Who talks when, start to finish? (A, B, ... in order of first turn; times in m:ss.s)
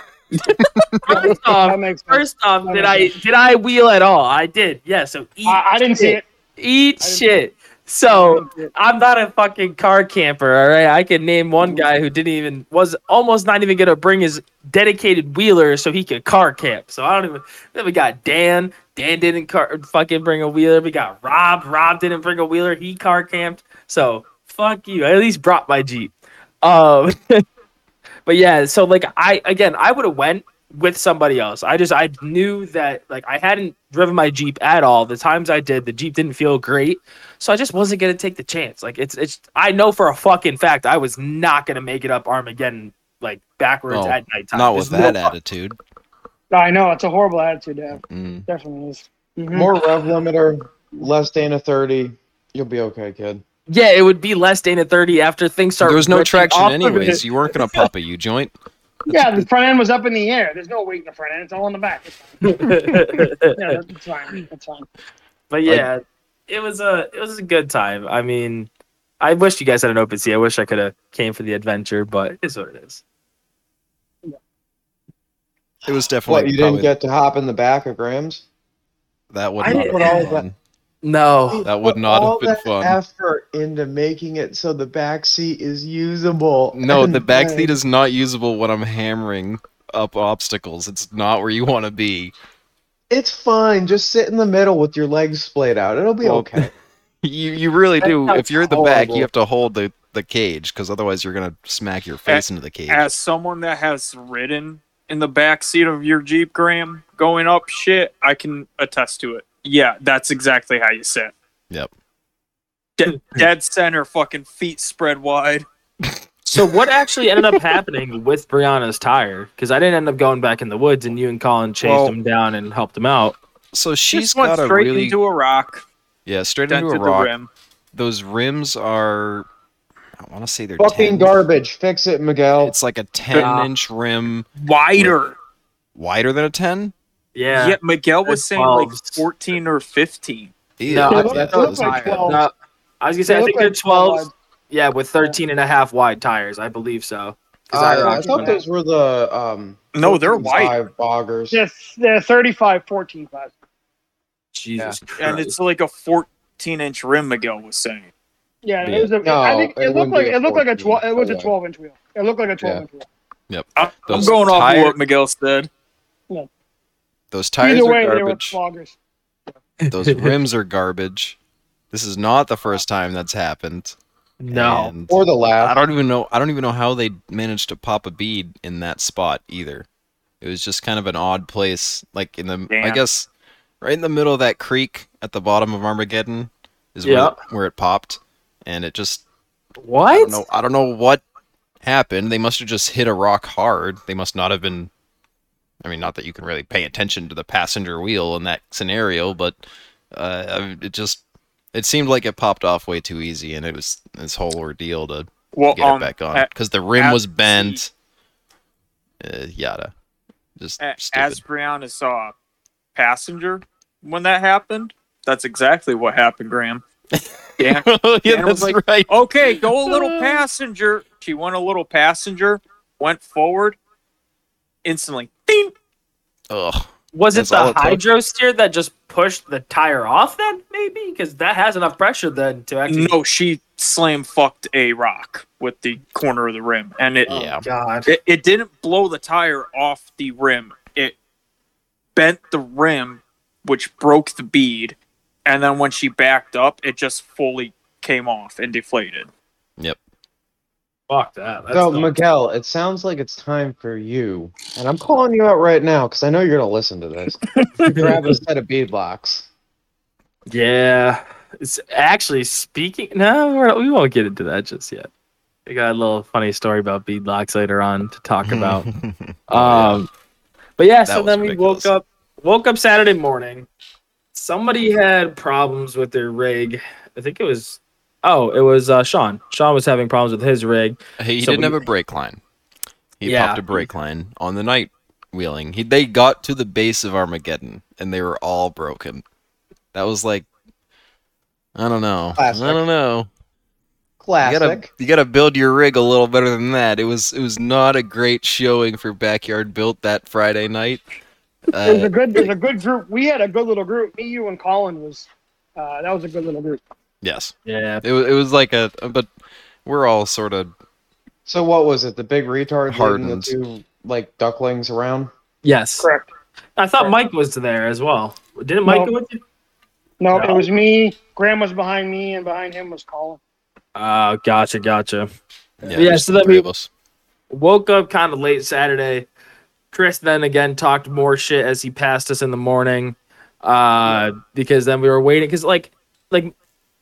0:00.5-0:01.3 A
0:01.0-0:27.4 B
0:01.1-0:03.1 C
0:05.4-0:06.2 C
0:07.0-0:07.4 C
0:08.1-0:08.7 C
0:28.2-0:45.2 B
0:43.9-0:45.8 A
0:46.5-0:49.7 C
0:48.1-0:48.4 A
0:49.5-0:53.4 D
0:53.7-0:57.8 B
0:55.8-0:58.5 A
0:59.1-1:02.6 C
1:02.4-1:03.8 B
1:03.5-1:04.9 C
1:05.5-1:13.0 B
1:15.8-1:16.9 A
1:16.3-1:18.4 D
1:19.3-1:20.5 A
1:19.6-1:20.2 B
1:19.6-1:20.5 D
1:21.0-1:21.6 B
1:21.5-1:27.2 D
1:21.6-1:23.0 A
1:26.7-1:32.3 A
1:27.2-1:27.7 C
1:33.1-1:36.7 D
1:36.2-1:36.7 A
1:37.2-1:43.1 A
1:38.0-1:38.4 B
1:38.0-1:39.3 D
1:42.3-1:51.3 E
1:53.0-1:55.7 E
1:56.5-2:03.4 B
2:01.8-2:02.1 A
2:03.7-2:05.2 A
2:04.1-2:05.8 E
2:06.2-2:07.3 A
2:06.7-2:07.5 E
2:07.9-2:09.4 A
2:10.2-2:11.3 A
2:10.8-2:12.7 D
2:12.6-2:15.2 A
2:13.3-2:13.7 B
2:14.6-2:15.4 E
2:15.9-2:16.9 A
2:17.3-2:19.2 B
2:17.5-2:20.5 E
2:20.8-2:22.4 A
2:20.9-2:21.4 B
2:21.1-2:22.4 C
2:21.1-2:22.3 D
2:22.2-2:28.6 B
2:23.3-2:24.3 C
2:27.7-2:31.6 D
2:27.8-2:28.6 C
2:29.9-2:30.8 E
2:31.5-2:33.5 C
2:34.5-2:35.5 B
2:35.2-2:38.1 E
2:38.6-2:43.1 C
2:38.8-2:41.5 D
2:43.5-2:45.0 A
2:43.8-2:45.7 E
2:47.3-2:48.6 A
2:47.6-2:49.0 C
2:49.8-2:50.3 B
2:49.9-2:51.4 A
2:51.9-2:54.0 A
2:54.4-2:54.9 B
2:54.5-2:59.8 A
2:55.1-2:55.8 D
3:00.4-3:03.3 A
3:02.7-3:03.0 E
3:03.8-3:09.2 A
3:07.0-3:07.3 B
3:09.8-3:10.4 B
3:10.1-3:11.2 A
3:11.8-3:14.9 A
3:15.8-3:19.6 A
3:20.1-3:21.2 A
3:21.7-3:27.9 A
3:25.5-3:27.8 E
3:29.2-3:29.9 A
3:30.6-3:31.4 A
3:30.8-3:32.3 E
3:32.9-3:36.8 E
3:37.6-3:43.8 E
3:37.6-3:39.2 A
3:39.8-3:40.4 A
3:44.8-3:45.7 E
3:46.5-3:48.0 A
3:47.1-3:53.1 B
3:52.9-3:57.3 E
3:57.3-3:57.6 A
3:57.3-3:58.1 B
3:58.1-4:01.2 E
4:02.1-4:09.3 E
4:11.1-4:12.2 B
4:11.7-4:19.5 D
4:17.8-4:18.1 B
4:20.5-4:25.1 B
4:25.6-4:28.8 B
4:28.4-4:30.1 A
4:29.5-4:30.1 B
4:30.8-4:33.7 B
4:31.1-4:31.9 A
4:34.3-4:41.8 B
4:41.2-4:42.4 A
4:43.2-4:49.2 A
4:43.2-4:43.8 B
4:49.9-4:50.5 A
4:51.8-4:53.3 A
4:52.4-4:52.8 D
4:54.2-4:54.9 D
4:54.4-5:01.0 A
5:01.7-5:02.1 A
5:01.8-5:06.8 C
5:07.2-5:09.3 A
5:07.6-5:08.0 B
5:09.8-5:10.7 A
5:11.4-5:15.3 D
5:12.9-5:13.5 A
5:15.6-5:16.1 B
5:16.0-5:16.3 C
5:16.8-5:19.4 B
5:18.8-5:19.1 C
5:20.2-5:23.4 C
5:20.3-5:20.7 B
5:24.0-5:25.3 B
5:25.8-5:26.9 A
5:25.9-5:26.6 B
5:27.5-5:29.3 B
5:29.9-5:36.5 B